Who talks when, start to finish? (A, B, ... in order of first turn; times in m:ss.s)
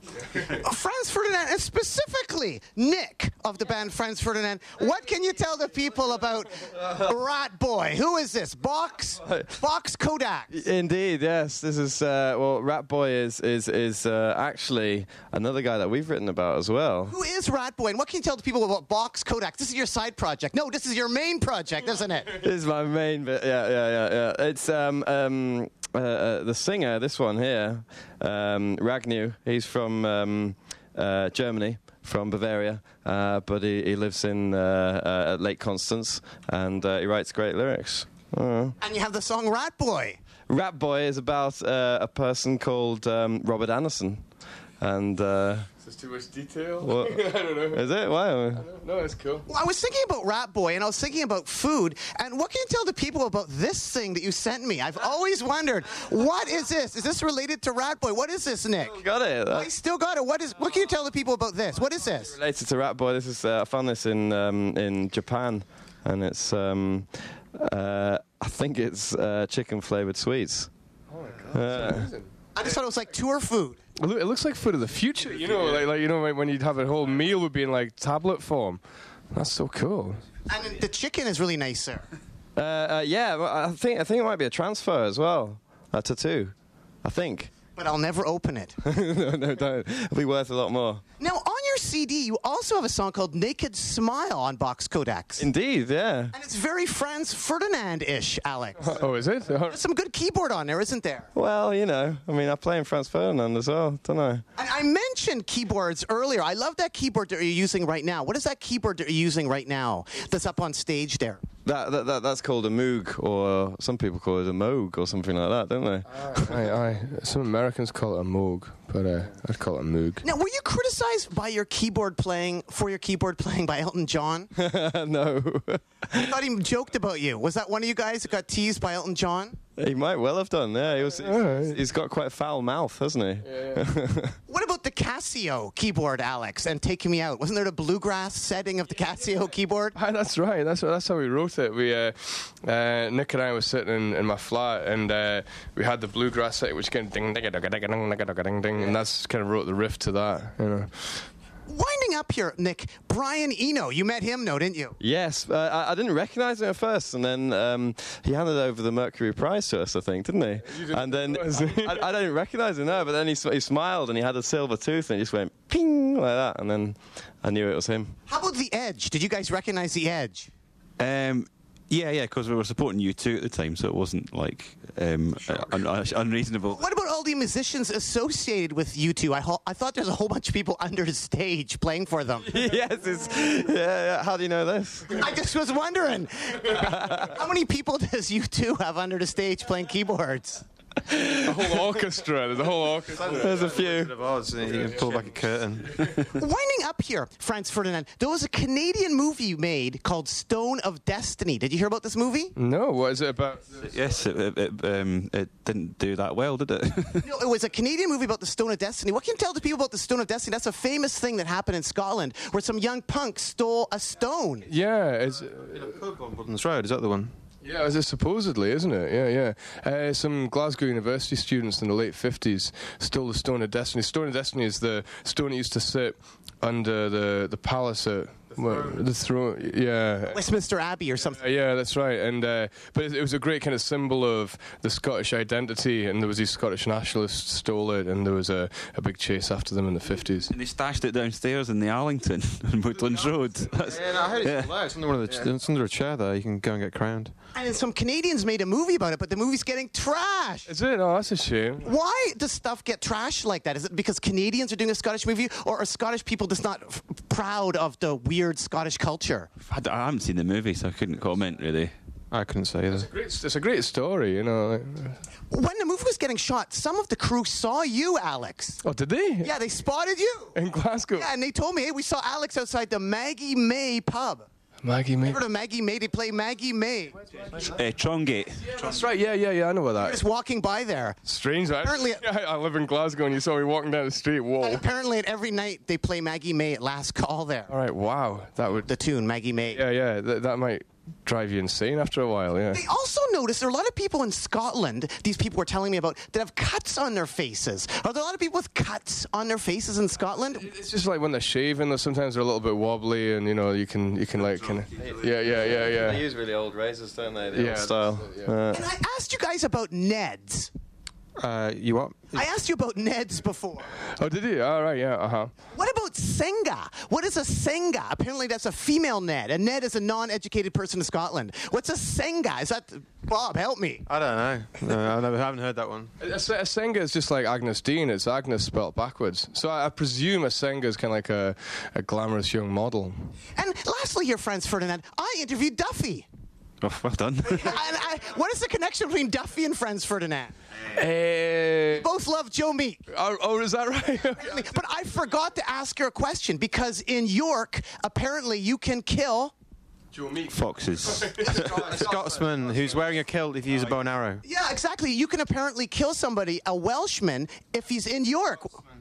0:00.4-0:10.6 A
0:10.5-0:17.2 B
0:17.1-0:22.4 A
0:22.4-0:38.8 B
0:38.8-0:40.2 A
0:40.5-0:44.2 B
0:44.8-0:45.7 B
0:45.8-0:47.8 C
0:46.8-0:48.6 B
0:48.6-0:49.4 C
0:49.5-1:02.4 A
0:58.8-0:59.7 B
1:02.3-1:10.7 B
1:11.1-1:12.3 C
1:11.5-1:12.1 B
1:12.6-1:13.8 A
1:14.0-1:18.8 C
1:19.3-1:20.2 C
1:20.5-1:22.1 A
1:22.6-1:27.5 B
1:27.8-1:28.8 A
1:28.8-1:31.0 B
1:31.2-1:35.5 A
1:35.4-1:36.3 B
1:36.3-1:39.0 A
1:38.8-1:39.8 C
1:39.7-1:41.3 A
1:41.3-1:44.4 B
1:44.6-1:51.4 A
1:51.6-1:56.5 B
1:56.2-2:00.2 C
2:00.2-2:04.5 A
2:04.5-2:06.3 B
2:06.1-2:09.6 A
2:09.8-2:14.4 B
2:11.1-2:11.8 C
2:13.5-2:13.8 C
2:14.5-2:20.0 A
2:20.0-2:30.9 C
2:31.7-2:35.0 A
2:35.0-2:48.2 B
2:40.7-2:42.1 C
2:48.3-2:50.5 A
2:51.0-2:56.8 D
2:56.7-3:02.6 A
3:02.4-3:05.2 B
3:05.1-3:10.6 A
3:06.6-3:07.3 B
3:11.1-3:11.8 B
3:11.4-3:13.6 C
3:13.1-3:16.1 E
3:13.2-3:14.1 B
3:14.8-3:15.3 C
3:16.0-3:16.3 C
3:16.3-3:22.5 A
3:22.6-3:23.7 C
3:23.8-3:27.3 D
3:27.2-3:34.7 A
3:34.7-3:35.8 C
3:35.6-3:37.3 E
3:37.6-3:50.4 C
3:50.3-3:51.4 A
3:51.4-4:00.5 C
4:00.5-4:04.7 D
4:03.8-4:07.3 E
4:07.6-4:10.7 A
4:10.7-4:11.9 C
4:11.8-4:19.5 A
4:19.7-4:21.9 D
4:22.3-4:23.1 E
4:22.9-4:25.2 C
4:25.5-4:28.8 A
4:28.8-4:29.5 C
4:29.4-4:30.6 A
4:30.6-4:31.3 C
4:31.2-4:34.5 A
4:34.8-4:35.4 C
4:35.2-4:37.2 A
4:37.4-4:39.0 D
4:38.6-4:40.2 C
4:40.0-4:41.2 A
4:41.2-4:44.8 C
4:41.8-4:42.2 A
4:44.6-4:47.7 A
4:47.7-4:48.9 C
4:48.9-4:49.8 A
4:49.7-4:52.8 C
4:52.7-5:00.7 A
5:00.6-5:06.2 C
5:05.4-5:08.8 B
5:07.5-5:08.5 C
5:08.7-5:10.7 A
5:11.4-5:12.5 E
5:12.3-5:13.9 A
5:14.2-5:15.5 C
5:15.7-5:24.1 A
5:24.1-5:26.1 E
5:26.2-5:33.3 C
5:33.6-5:36.3 A
5:36.8-5:37.8 D
5:37.4-5:40.5 A
5:40.9-5:42.1 C
5:41.9-5:43.0 A
5:43.1-5:44.6 C
5:44.4-5:49.5 A
5:50.1-5:52.3 C
5:50.5-5:51.9 D
5:51.6-5:54.4 E
5:54.4-5:58.8 A